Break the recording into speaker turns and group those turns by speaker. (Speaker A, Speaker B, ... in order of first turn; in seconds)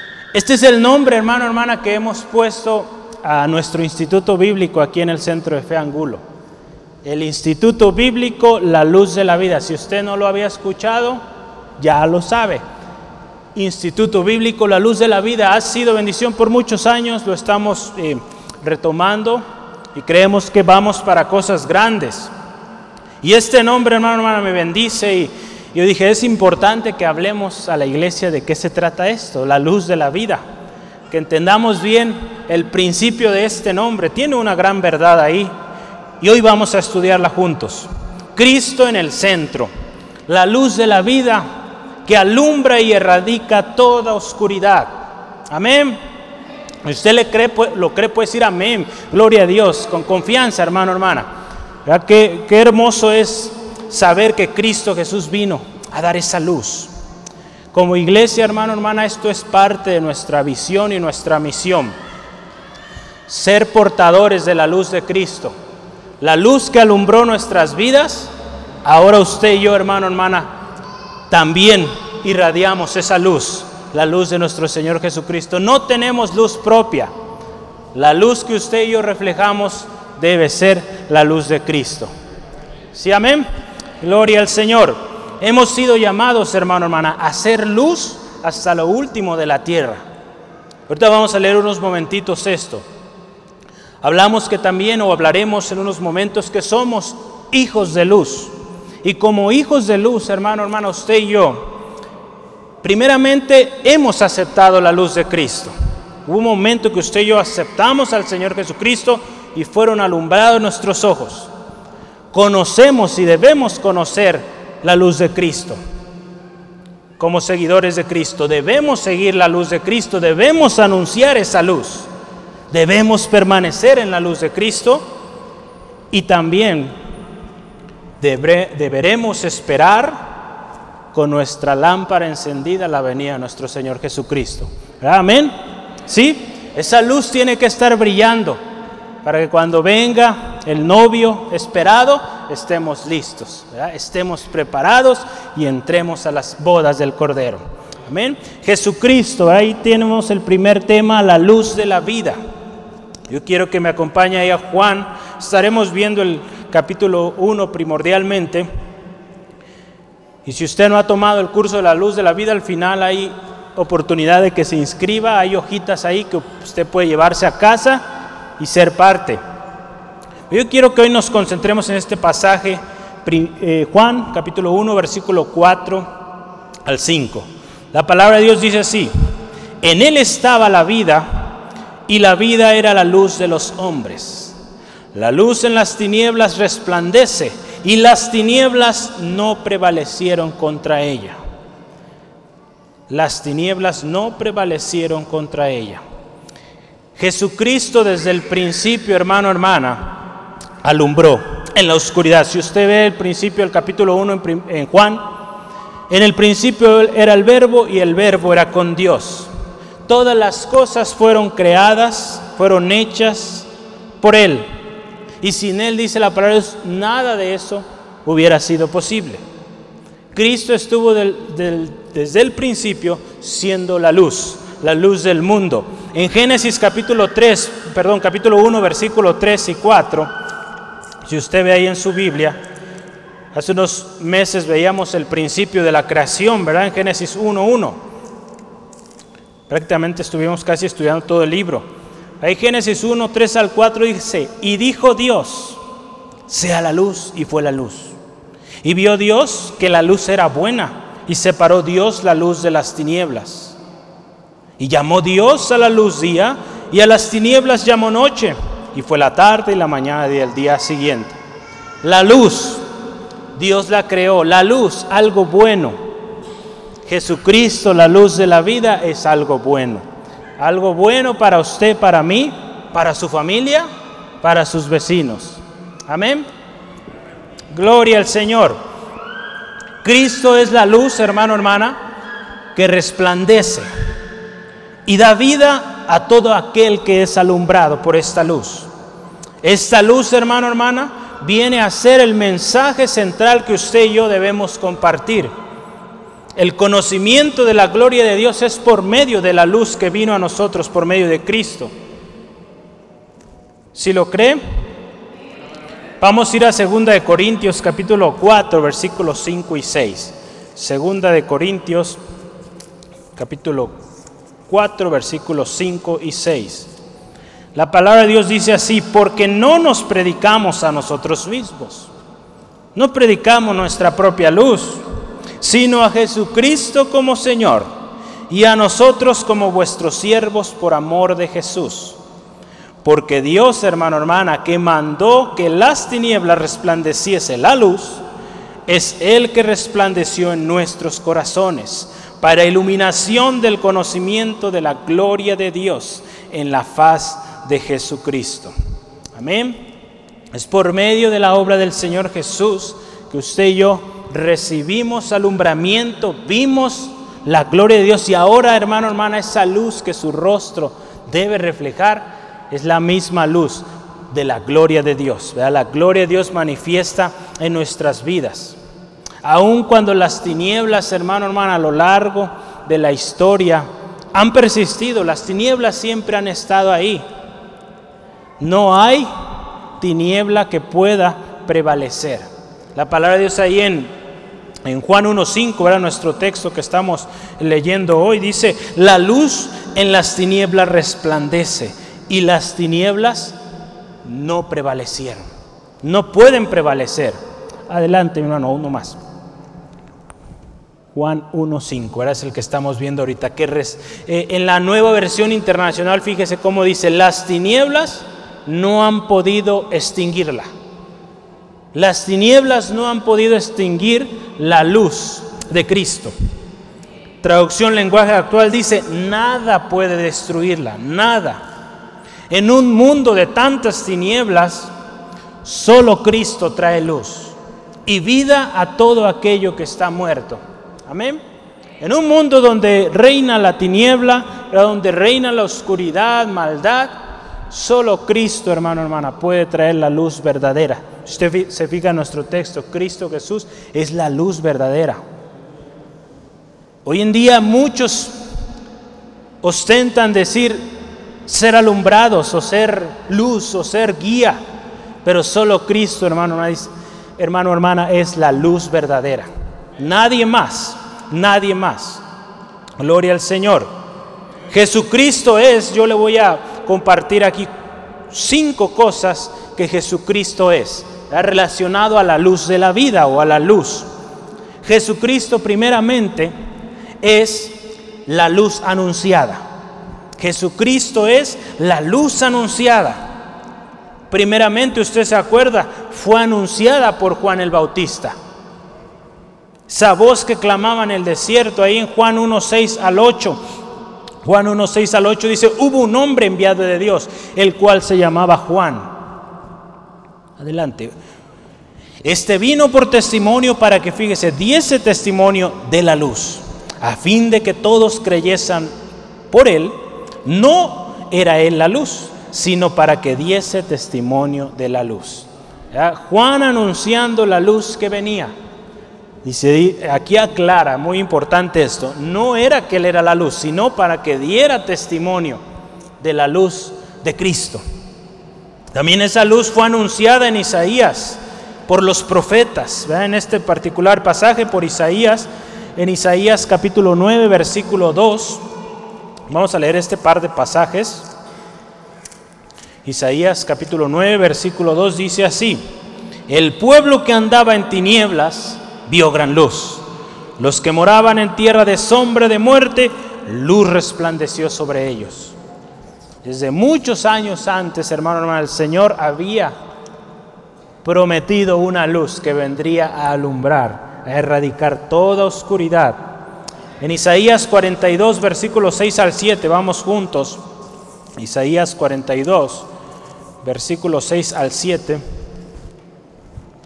Speaker A: 0.3-6.2, 7.0-11.2, 11.8-12.6, 13.6-19.4, 19.9-22.3, 23.2-30.4, 31.1-35.5, 36.2-39.7, 40.3-41.5, 42.0-44.9, 45.5-46.0, 46.8-51.3, 51.9-56.9, 57.7-61.9, 63.3-65.5, 66.2-68.3, 68.8-70.5, 71.3-77.1, 77.9-82.1, 82.9-83.5, 84.0-90.0, 90.9-92.8, 94.0-101.7, 102.8-105.7, 106.3-111.5, 112.3-115.8, 117.2-122.1, 122.7-125.0, 126.1-126.9, 128.2-130.2, 131.1-135.5, 136.1-138.6, 139.2-152.4, 153.3-158.7, 160.4-168.0, 168.6-169.4, 170.5-176.1, 176.9-179.1, 179.8-181.5, 182.1-184.6, 185.1-191.4, 193.1-196.0, 197.2-200.2, 200.8-205.4, 206.1-209.5, 210.1-213.7, 214.2-214.7, 215.4-219.4, 220.3-230.3, 231.3-232.6, 233.5-238.0, 239.7-241.9, 242.4-245.8, 246.5-248.2, 248.8-253.8, 254.8-261.4, 262.0-262.9, 263.6-266.0, 267.1-270.1, 270.6-273.9, 274.4-276.5, 277.7-278.8, 280.0-282.0, 282.8-283.9, 285.1-288.9, 289.6-295.5, 296.6-301.9, 303.9-304.6, 306.2-312.2, 313.4-314.0, 314.7-316.9, 317.8-322.1, 322.9-325.0, 325.6-327.9, 328.5-332.2, 333.0-338.2, 338.9-348.7, 349.4-349.9, 350.5-368.8, 369.4-377.2, 378.6-379.3, 380.0-384.1, 384.9-393.6, 394.2-395.4, 396.0-399.2, 401.1-410.7, 411.9-416.4, 417.4-421.6, 422.5-424.9, 425.6-431.4, 432.0-437.1, 437.7-445.2, 447.1-448.4, 449.6-450.8, 451.5-454.6, 455.2-462.2, 463.0-463.9, 464.7-467.7, 468.3-474.1, 474.8-476.5, 477.2-479.6, 480.4-483.2, 484.3-488.4, 489.9-493.6, 494.4-499.1, 500.6-501.1, 502.2-508.9, 509.5-518.5, 519.4-525.6, 526.2-527.8, 528.9-538.6, 539.5-541.3, 543.0-545.8, 546.5-550.0, 550.6-555.5, 556.4-559.8, 561.0-566.3, 567.0-570.6, 571.4-572.9, 573.6-575.2